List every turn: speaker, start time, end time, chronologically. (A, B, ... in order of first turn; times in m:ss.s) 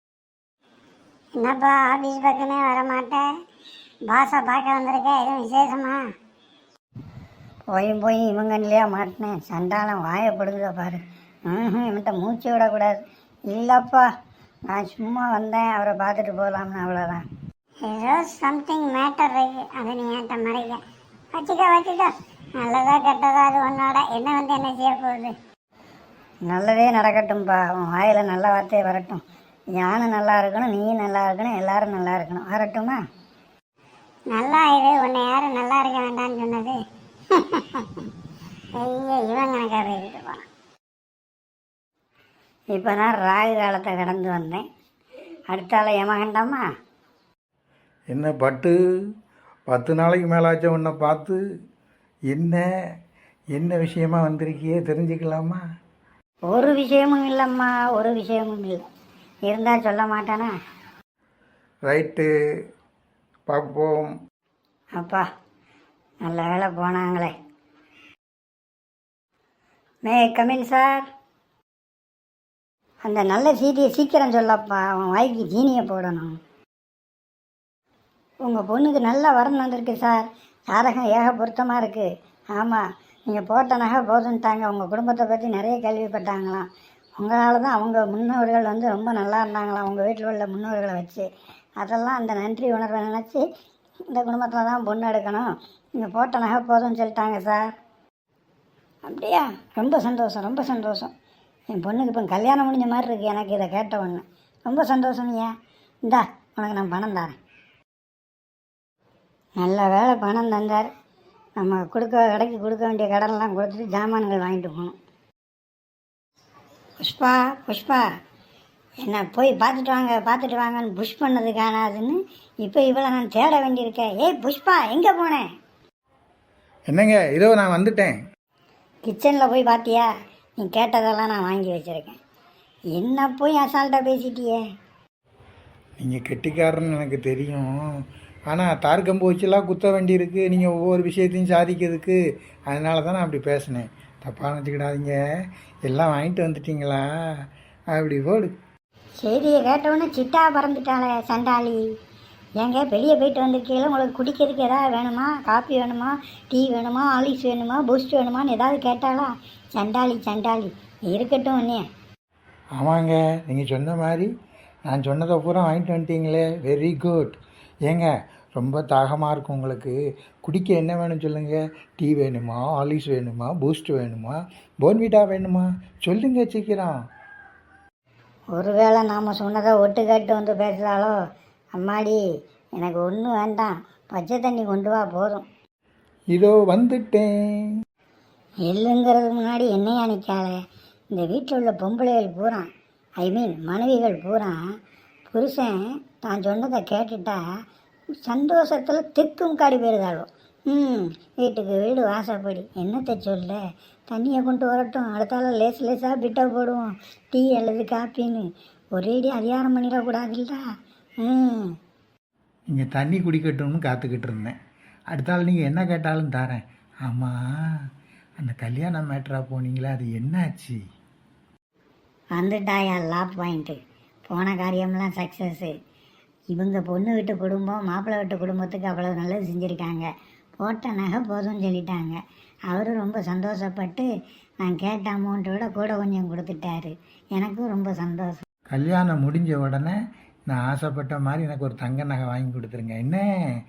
0:01.4-0:03.2 A
0:04.1-0:06.0 A
0:07.7-0:13.0 B
0:13.5-0:14.1 B
0:14.7-0:17.2 B
0:17.8-0:20.8 A
0:21.3-0:25.4 A
0:26.4-0:29.2 B
0:29.7-0:33.0 B
0:34.3-0:36.8 A
0:37.3-0:38.0 A
0:38.8-0:40.4 A
0:42.7-0:44.6 B
0:45.5-0:46.6 B
0:48.1-0:48.7 C
0:49.7-0:51.4 C
0:52.3-0:52.6 C
0:53.5-0:55.6 C
0:56.5-0:58.8 B
0:59.4-1:00.5 B
1:01.8-1:02.3 C
1:03.5-1:04.1 C
1:05.0-1:05.2 B
1:06.2-1:07.3 B
1:10.0-1:11.1 B
1:13.0-1:16.4 B
1:18.4-1:31.3 B
1:31.8-1:33.4 B
1:34.1-1:37.7 B
1:39.1-1:41.1 B
1:41.7-1:45.5 B
1:46.0-1:47.3 B
1:49.6-1:50.9 B
1:51.6-1:54.9 B
1:57.0-1:58.0 B
1:59.0-2:05.5 B
2:06.9-2:08.2 C
2:09.0-2:12.2 B
2:12.9-2:14.6 B
2:16.0-2:17.7 C
2:18.5-2:25.2 C
2:25.8-2:27.0 C
2:27.9-2:28.5 C
2:29.2-2:31.8 B
2:32.6-2:41.8 B
2:42.8-2:44.3 C
2:44.9-2:56.9 C
2:58.5-3:01.1 B
3:01.7-3:02.2 B
3:02.8-3:05.4 B
3:06.3-3:07.3 C
3:08.7-3:10.6 B
3:11.1-3:12.7 B
3:13.2-3:14.6 B
3:15.3-3:17.4 B
3:18.2-3:30.6 B
3:31.2-3:31.7 B
3:32.7-3:34.6 C
3:35.1-3:37.4 C
3:38.4-3:40.8 C
3:42.3-3:45.7 B
3:46.5-3:50.1 B
3:50.6-3:52.2 B
3:52.7-3:54.1 B
3:54.6-3:58.4 B
3:58.7-4:00.0 C
4:00.5-4:03.2 C